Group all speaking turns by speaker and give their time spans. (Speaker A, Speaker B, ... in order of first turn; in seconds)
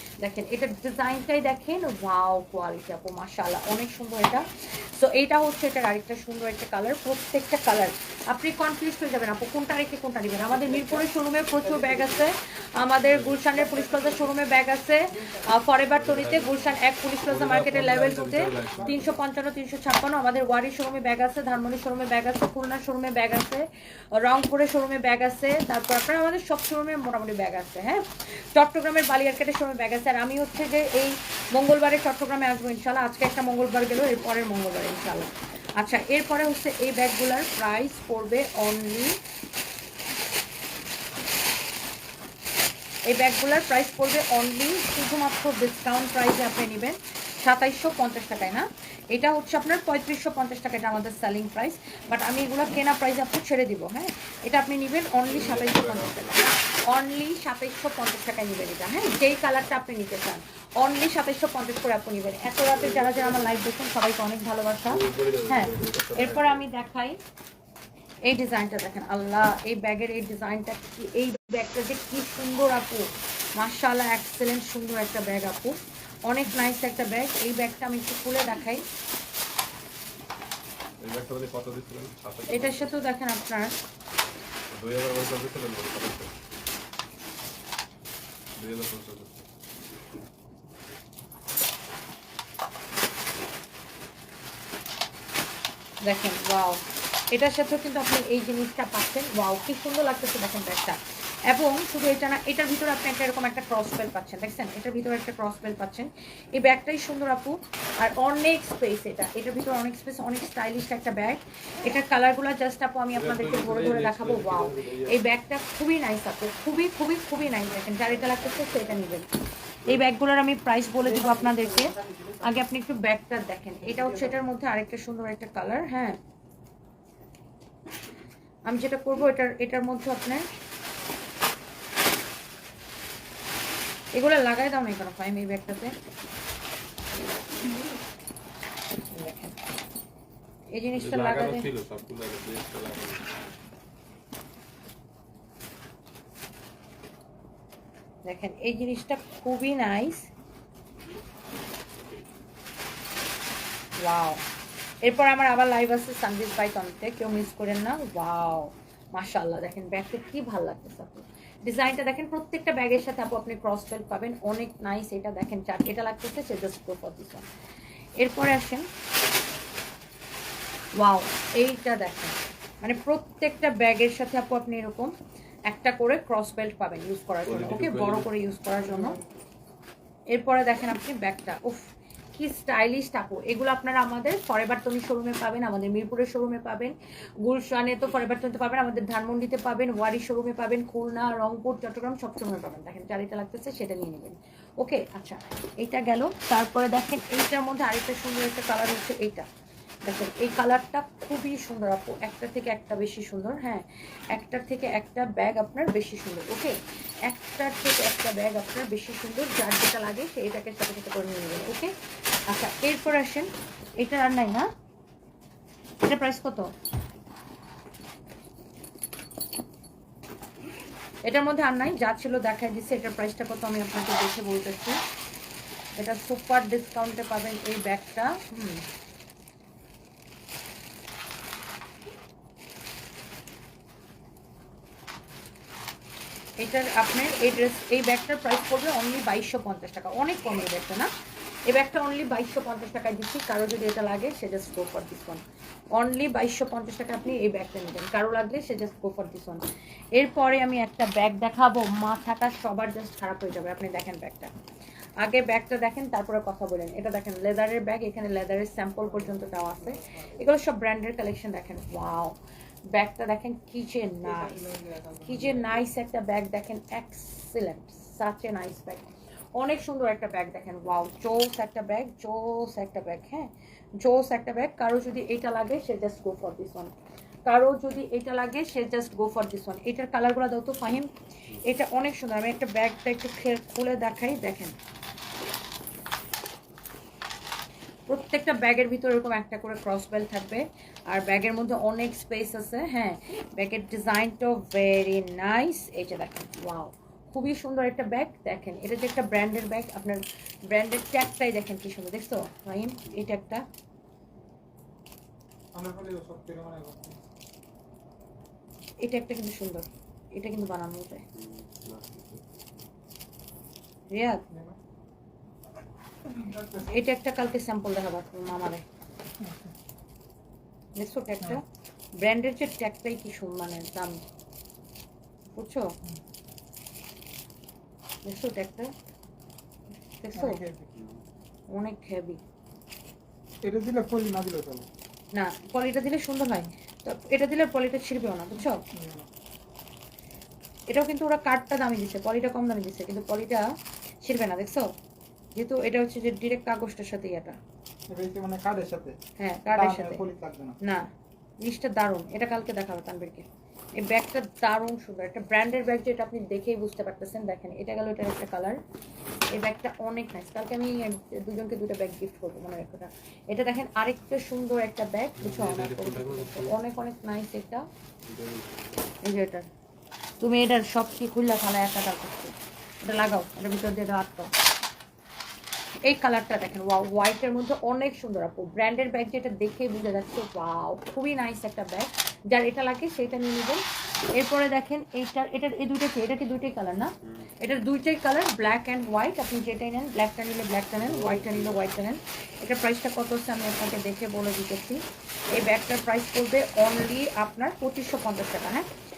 Speaker A: 0.2-39.2, 43.1-67.2, 68.2-78.9, 82.5-83.7, 96.0-119.3, 119.8-126.2, 128.7-130.5, 134.2-136.0, 139.1-139.6, 140.7-141.7, 148.3-150.3, 154.0-154.4, 155.0-167.5, 168.2-168.9, 171.0-175.1, 175.7-179.2, 180.3-199.5, 200.1-211.9, 212.5-214.7, 216.0-216.8, 221.2-225.0, 226.0-228.9, 236.6-241.1, 241.7-245.4, 245.9-249.6, 250.2-254.5, 255.2-262.4, 262.9-264.6, 265.2-276.9, 277.5-284.8, 288.1-303.7, 309.0-311.2, 314.1-314.4, 316.9-318.8, 321.0-321.6, 322.2-324.2, 325.5-325.9, 328.3-328.9, 330.1-330.6, 331.7-332.4, 335.4-338.8, 340.9-343.7, 344.2-344.9, 345.6-347.6, 349.4-350.2, 350.8-351.1, 351.6-358.8, 359.5-367.9, 369.2-369.7, 370.4-374.5, 376.1-383.8, 384.4-395.0, 395.5-398.9
Speaker B: 10.6-11.1, 11.6-12.2, 13.6-14.2, 18.7-19.1, 121.0-122.5, 178.8-179.2, 259.0-260.4, 264.2-265.9, 305.7-307.2, 314.5-314.8, 316.3-317.0, 319.4-319.7, 330.4-330.9, 333.6-334.9, 338.9-339.3, 348.1-349.2, 349.7-350.8
Speaker C: 13.1-13.4, 15.9-19.2, 55.3-56.5, 62.8-63.6, 64.9-66.6, 81.0-83.0, 84.7-86.3, 88.6-89.5, 113.1-115.2, 140.9-143.3, 177.4-178.3, 311.4-312.9, 330.9-331.2, 365.4-366.8, 368.2-369.0, 387.2-387.5, 391.0-391.9